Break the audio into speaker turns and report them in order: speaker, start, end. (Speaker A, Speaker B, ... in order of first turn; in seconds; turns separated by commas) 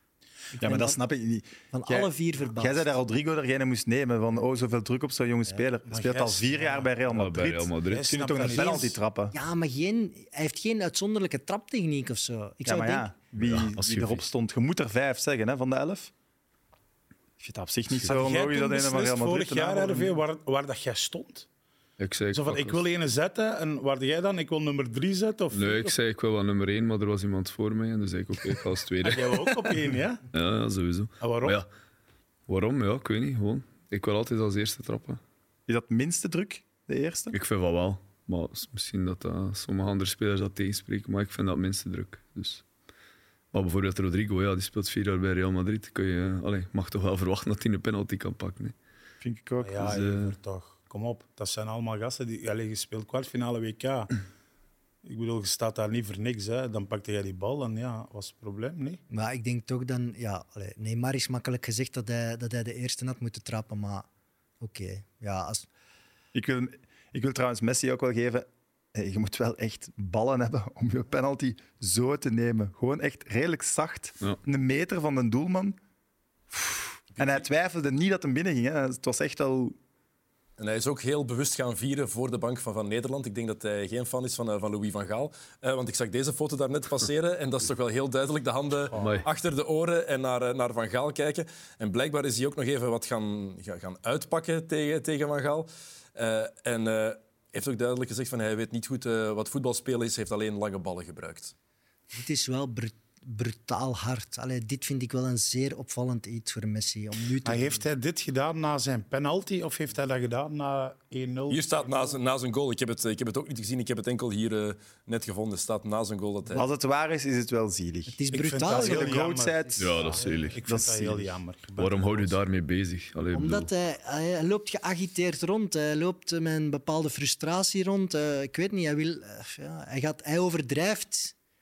Speaker A: 0.5-1.0, Speaker B: 0.6-9.3, Speaker A: 1.7-2.9, Speaker C: 5.9-7.0, Speaker D: 7.1-8.1, Speaker C: 7.8-9.0, Speaker A: 8.7-13.1, Speaker B: 12.6-16.1, Speaker D: 13.4-14.2, Speaker B: 17.4-20.2, Speaker C: 18.0-21.4, Speaker D: 22.0-22.8, Speaker C: 22.3-25.9, Speaker D: 25.5-29.6, Speaker C: 29.0-30.2, Speaker D: 30.3-31.7, Speaker C: 31.2-31.6, Speaker D: 32.5-35.2, Speaker B: 35.7-37.4, Speaker D: 37.3-42.6, Speaker D: 43.5-48.7, Speaker B: 49.2-50.0, Speaker C: 49.6-54.1, Speaker D: 49.8-50.3, Speaker C: 55.0-59.0, Speaker A: 59.1-64.1, Speaker A: 64.6-65.7, Speaker B: 66.3-75.8, Speaker B: 76.5-79.8, Speaker E: 77.1-77.5, Speaker E: 80.6-101.5, Speaker C: 88.9-89.2, Speaker D: 88.9-89.3, Speaker A: 102.1-107.8, Speaker C: 107.4-112.2, Speaker E: 111.5-116.7, Speaker B: 116.5-121.4, Speaker A: 118.1-119.3, Speaker C: 118.3-122.4, Speaker D: 119.8-120.6, Speaker D: 121.8-123.7, Speaker A: 123.3-131.3